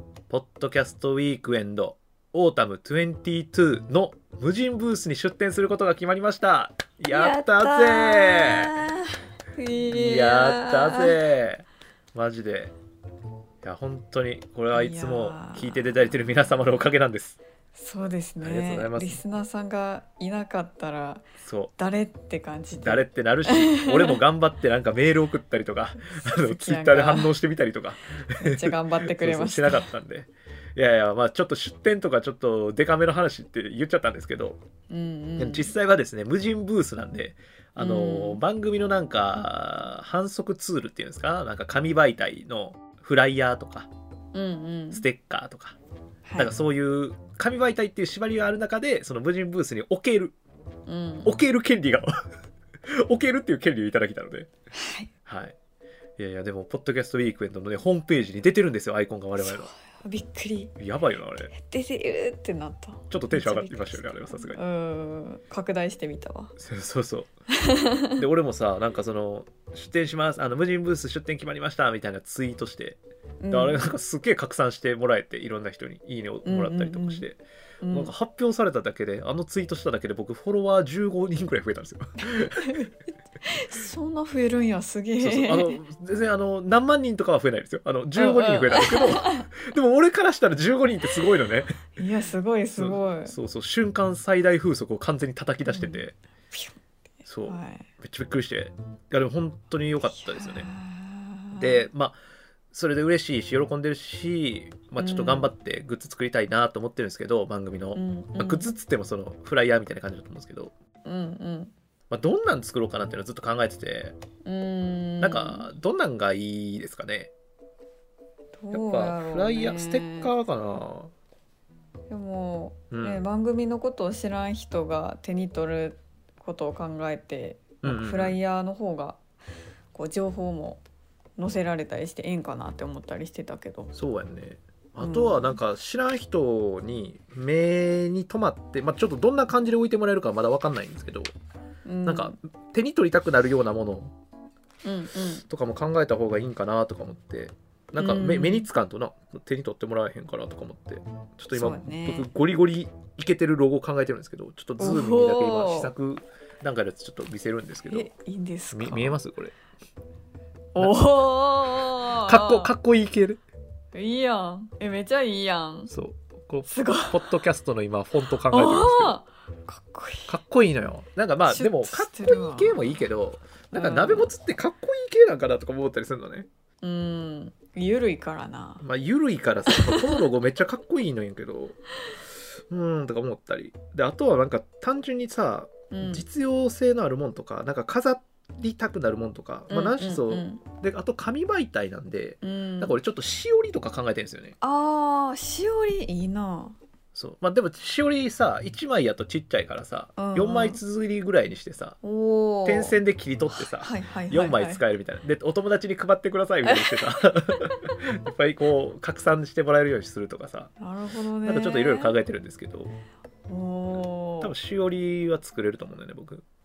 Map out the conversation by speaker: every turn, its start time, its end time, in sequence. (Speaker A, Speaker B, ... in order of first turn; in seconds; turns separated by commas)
Speaker A: 0.3-8.7, Speaker B: 7.1-11.2, Speaker A: 9.8-12.7, Speaker A: 13.6-17.4, Speaker B: 14.7-15.8, Speaker B: 17.7-24.2, Speaker A: 18.4-19.2, Speaker A: 21.4-21.7, Speaker A: 22.8-34.6, Speaker B: 26.1-27.3, Speaker B: 28.4-29.9, Speaker B: 34.9-35.7, Speaker A: 35.4-43.9, Speaker B: 37.8-38.4, Speaker B: 44.3-45.0, Speaker A: 44.9-45.8, Speaker B: 46.2-46.5, Speaker A: 46.4-50.3, Speaker B: 50.9-51.4, Speaker A: 51.2-52.2, Speaker A: 52.9-54.5, Speaker B: 54.7-55.1, Speaker A: 55.2-55.5, Speaker A: 56.2-59.7, Speaker B: 59.4-60.7, Speaker A: 60.8-61.5, Speaker B: 61.5-66.5, Speaker A: 63.1-64.6, Speaker A: 66.6-67.3, Speaker B: 67.5-68.2, Speaker A: 68.2-73.0, Speaker B: 73.4-73.9, Speaker A: 73.5-77.4, Speaker B: 76.4-77.2, Speaker B: 77.8-78.1, Speaker A: 77.9-82.9, Speaker B: 82.6-82.9, Speaker B: 83.4-85.8, Speaker A: 85.2-91.8, Speaker B: 88.2-89.5, Speaker B: 92.0-93.3, Speaker A: 92.8-96.1, Speaker B: 95.7-96.0, Speaker A: 97.3-100.7, Speaker B: 97.4-97.9, Speaker B: 100.1-101.9, Speaker A: 101.5-102.2, Speaker A: 102.7-110.7, Speaker B: 105.0-105.5, Speaker B: 107.9-108.7, Speaker B: 111.0-111.7, Speaker A: 112.1-114.2, Speaker B: 114.4-115.7, Speaker A: 115.2-117.3, Speaker B: 118.5-120.3, Speaker A: 118.7-121.1, Speaker B: 122.1-129.2, Speaker A: 122.9-123.2, Speaker A: 127.8-128.3, Speaker B: 129.9-130.8, Speaker B: 131.4-133.9, Speaker A: 133.9-141.3, Speaker B: 135.0-135.6, Speaker B: 141.8-142.4, Speaker A: 142.1-144.1, Speaker B: 144.8-145.4, Speaker A: 145.5-158.1, Speaker B: 148.0-148.7, Speaker B: 151.5-152.3, Speaker B: 154.8-155.9, Speaker B: 157.9-159.2, Speaker A: 158.7-159.5, Speaker B: 160.7-162.7, Speaker A: 160.8-161.1, Speaker A: 162.1-163.4, Speaker B: 163.9-165.9, Speaker A: 165.9-169.2, Speaker B: 166.7-167.3, Speaker B: 168.5-170.3, Speaker A: 170.3-176.5, Speaker B: 171.5-173.0, Speaker B: 173.7-174.3, Speaker B: 176.8-178.8, Speaker A: 178.8-181.8, Speaker B: 179.7-180.2, Speaker A: 182.7-194.5, Speaker B: 185.9-186.2, Speaker B: 189.7-190.6, Speaker B: 192.4-192.9, Speaker B: 194.6-196.8, Speaker A: 197.1-202.0, Speaker B: 200.2-200.8, Speaker B: 202.0-203.0, Speaker A: 202.6-210.7, Speaker B: 203.6-204.8, Speaker B: 206.6-207.0, Speaker B: 210.8-212.1, Speaker A: 211.4-212.9, Speaker B: 213.5-214.5, Speaker A: 214.4-216.4